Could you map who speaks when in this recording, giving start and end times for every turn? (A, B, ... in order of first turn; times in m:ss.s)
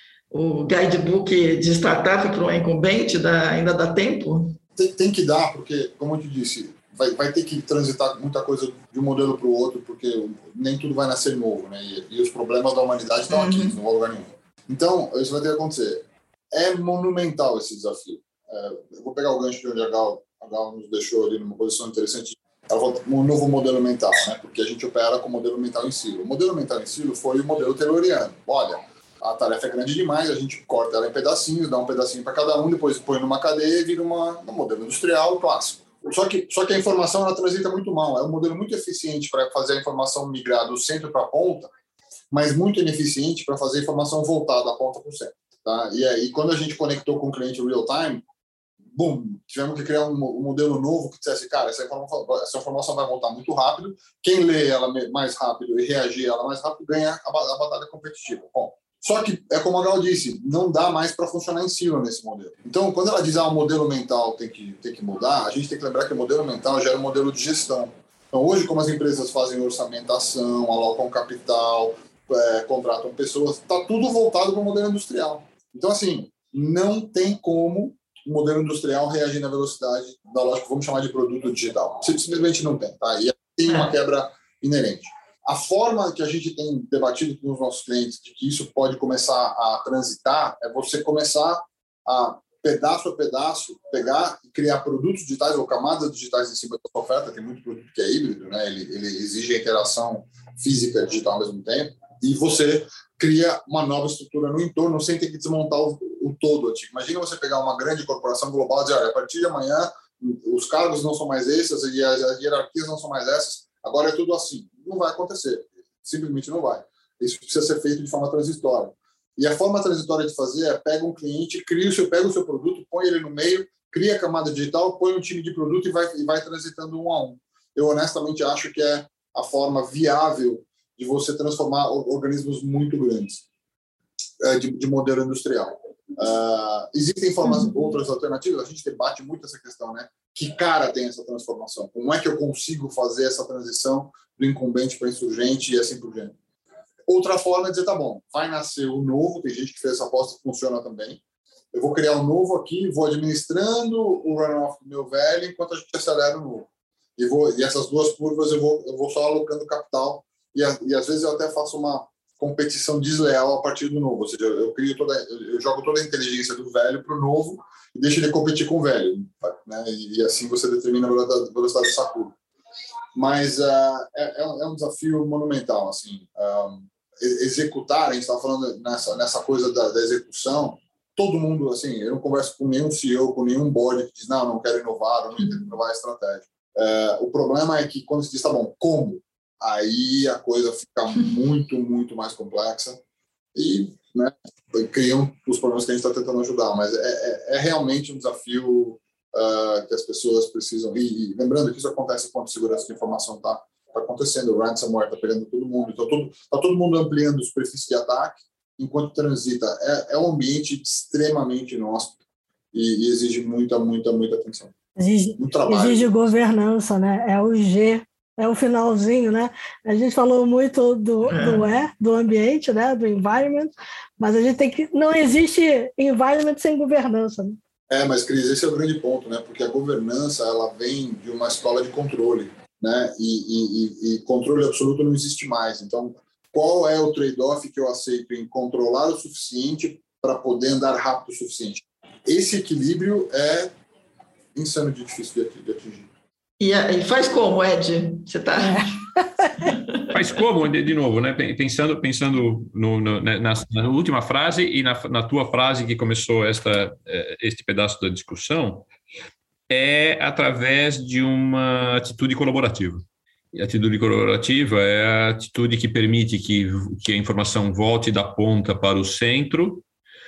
0:00.3-0:04.6 A
0:04.8-0:41.7 B
0:13.3-0:13.8 A
0:42.3-0:48.2 B
0:48.9-2:13.4 B
2:14.4-2:26.4 B
2:27.0-2:31.2 B
2:31.7-2:52.4 B
2:53.1-3:13.0 B
3:13.5-3:32.2 B
3:32.7-3:34.7 B
3:35.0-3:47.6 C
3:35.4-3:36.1 B
3:41.2-3:41.7 A
3:47.9-4:03.7 B
4:04.5-4:06.1 B
4:06.6-4:08.9 A
4:08.7-4:09.7 C
4:09.6-4:10.1 A
4:10.1-4:18.9 D
4:19.7-4:29.8 D